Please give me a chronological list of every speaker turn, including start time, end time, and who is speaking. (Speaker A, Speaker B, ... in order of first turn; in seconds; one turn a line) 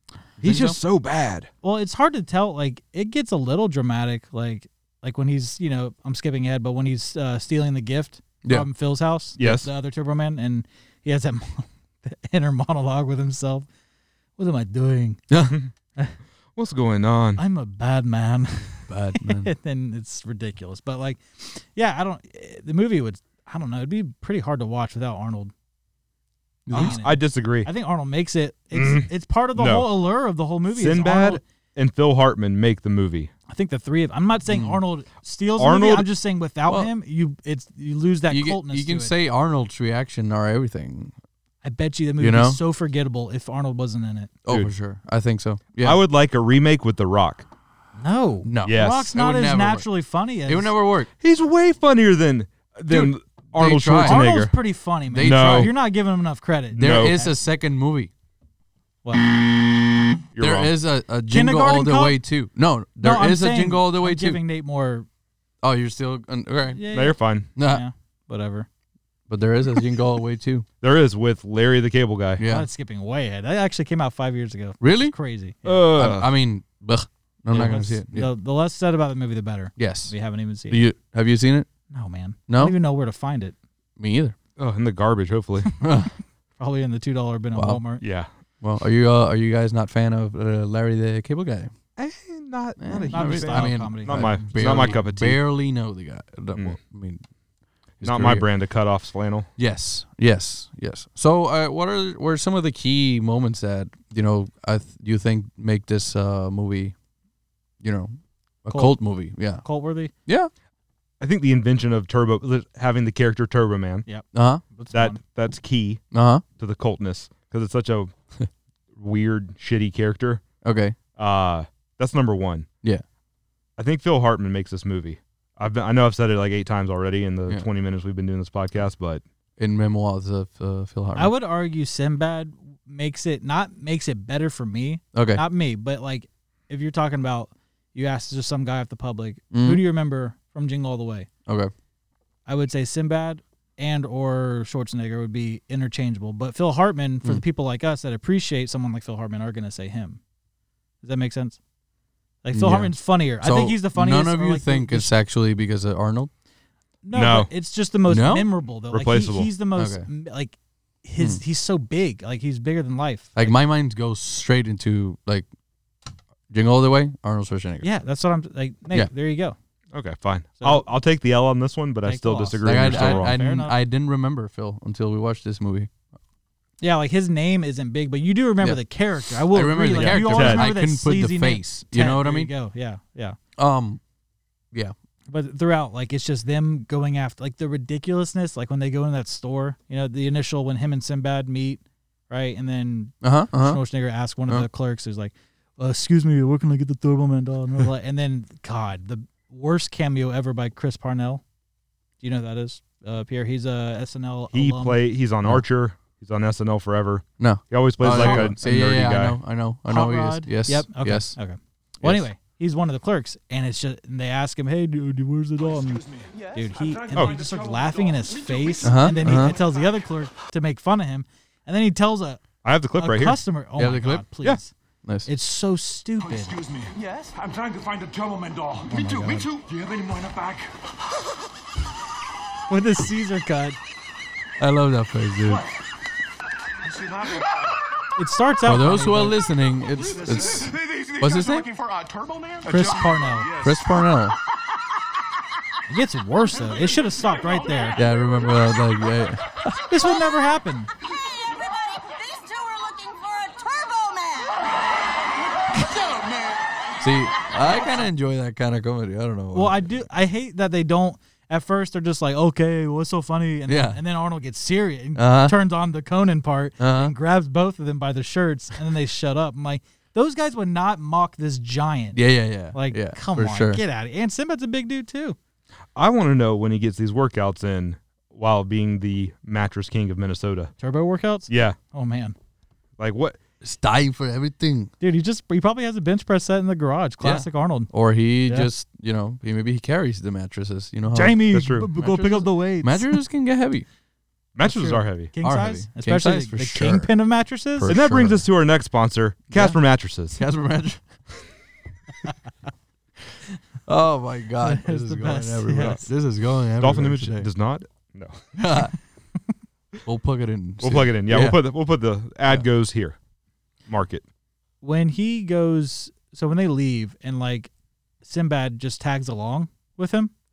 Speaker A: 0.4-0.8
Speaker B: 0.4-1.5
Speaker C: 1.6-13.7
Speaker B: 9.4-9.7
Speaker C: 14.4-15.2
Speaker A: 15.3-15.6
Speaker B: 16.6-17.4
Speaker C: 17.4-25.5
Speaker A: 18.9-19.5
Speaker A: 26.6-27.0
Speaker C: 26.7-31.4
Speaker B: 26.7-27.7
Speaker B: 28.7-29.9
Speaker B: 30.7-33.3
Speaker C: 33.5-39.1
Speaker A: 34.5-34.8
Speaker B: 35.6-36.1
Speaker A: 38.3-41.1
Speaker C: 41.6-44.3
Speaker A: 42.2-42.6
Speaker A: 44.4-46.0
Speaker B: 45.8-47.5
Speaker C: 48.0-50.7
Speaker A: 48.4-49.9
Speaker B: 48.6-49.1
Speaker A: 50.5-51.1
Speaker B: 51.2-54.5
Speaker A: 52.9-54.2
Speaker C: 54.0-57.3
Speaker A: 55.1-55.7
Speaker B: 55.2-55.7
Speaker B: 56.7-57.2
Speaker A: 56.8-58.1
Speaker B: 60.3-60.7
Speaker A: 60.4-64.4
Speaker C: 61.3-62.2
Speaker C: 63.0-65.0
Speaker A: 65.6-66.8
Speaker C: 66.7-68.7
Speaker B: 66.9-67.5
Speaker A: 67.5-67.8
Speaker A: 69.3-70.7
Speaker B: 70.8-72.4
Speaker A: 72.4-72.7
Speaker C: 72.4-75.8
Speaker A: 74.8-75.1
Speaker B: 75.7-76.3
Speaker A: 75.9-78.3
Speaker C: 77.5-80.8
Speaker A: 79.8-80.1
Speaker A: 80.7-81.7
Speaker C: 81.9-83.5
Speaker A: 82.5-82.8
Speaker A: 84.0-84.3
Speaker B: 84.6-85.7
Speaker A: 85.8-86.1
Speaker C: 86.6-88.0
Speaker A: 87.5-87.8
Speaker B: 88.0-88.3
Speaker A: 88.6-91.7
Speaker B: 92.0-95.4
Speaker A: 92.8-97.2
Speaker C: 93.1-95.0
Speaker A: 98.0-98.5
Speaker B: 98.0-99.5
Speaker A: 99.6-106.9
Speaker A: 107.8-109.6
Speaker C: 108.7-109.0
Speaker C: 109.6-110.1
Speaker B: 111.2-114.0
Speaker C: 114.0-115.2
Speaker A: 114.3-114.6
Speaker B: 114.9-116.0
Speaker A: 116.1-116.4
Speaker B: 116.6-118.1
Speaker B: 119.0-120.4
Speaker A: 120.6-121.0
Speaker B: 121.2-122.7
Speaker B: 123.8-129.2
Speaker A: 129.6-131.3
Speaker C: 131.2-141.3
Speaker A: 135.1-135.4
Speaker A: 139.5-139.8
Speaker A: 141.4-141.7
Speaker C: 142.4-150.2
Speaker C: 151.0-151.6
Speaker C: 152.4-155.1
Speaker A: 152.5-156.3
Speaker C: 157.0-163.5
Speaker B: 157.1-157.5
Speaker A: 158.1-158.5
Speaker B: 158.9-159.5
Speaker A: 159.8-160.1
Speaker A: 163.3-165.5
Speaker A: 166.5-167.9
Speaker C: 167.8-169.6
Speaker B: 169.9-173.3
Speaker C: 170.6-170.8
Speaker C: 172.0-173.7
Speaker A: 172.6-175.9
Speaker C: 176.8-183.4
Speaker A: 179.4-182.5
Speaker B: 179.9-180.7
Speaker A: 183.6-184.0
Speaker C: 185.3-201.4
Speaker A: 193.2-193.8
Speaker C: 202.2-205.0
Speaker B: 204.5-209.4
Speaker A: 207.4-211.4
Speaker C: 208.1-208.5
Speaker C: 209.9-222.4
Speaker A: 212.0-212.3
Speaker D: 215.6-220.1
Speaker A: 218.8-219.6
Speaker B: 222.6-223.4
Speaker C: 222.9-224.7
Speaker A: 223.8-224.2
Speaker A: 225.0-225.3
Speaker C: 225.2-226.6
Speaker D: 226.2-230.7
Speaker C: 228.8-229.5
Speaker C: 232.7-233.8
Speaker A: 234.6-235.7
Speaker D: 235.4-235.7
Speaker D: 236.8-237.7
Speaker C: 238.2-239.4
Speaker A: 238.6-241.7
Speaker D: 240.0-243.9
Speaker C: 242.7-243.5
Speaker A: 243.6-244.3
Speaker C: 245.9-248.0
Speaker D: 246.7-248.2
Speaker A: 247.9-249.5
Speaker C: 249.9-250.9
Speaker E: 251.2-254.6
Speaker D: 255.9-256.6
Speaker A: 257.0-259.9
Speaker C: 259.5-275.4
Speaker A: 263.7-264.0
Speaker A: 265.1-265.6
Speaker A: 266.8-267.1
Speaker A: 272.1-273.8
Speaker B: 275.9-280.7
Speaker C: 280.8-282.4
Speaker B: 281.5-281.8
Speaker B: 283.0-283.4
Speaker A: 283.6-284.9
Speaker C: 285.0-287.9
Speaker A: 287.2-293.9
Speaker C: 291.1-293.2
Speaker B: 291.5-291.9
Speaker B: 294.6-295.3
Speaker C: 294.6-297.9
Speaker A: 295.4-297.1
Speaker A: 297.8-298.4
Speaker B: 297.9-300.4
Speaker A: 299.5-299.8
Speaker A: 300.3-301.0
Speaker A: 303.9-307.5
Speaker C: 304.6-306.1
Speaker B: 306.8-308.4
Speaker A: 308.6-308.9
Speaker A: 310.0-311.6
Speaker B: 310.8-313.1
Speaker B: 313.9-314.2
Speaker C: 314.8-317.7
Speaker C: 318.2-320.3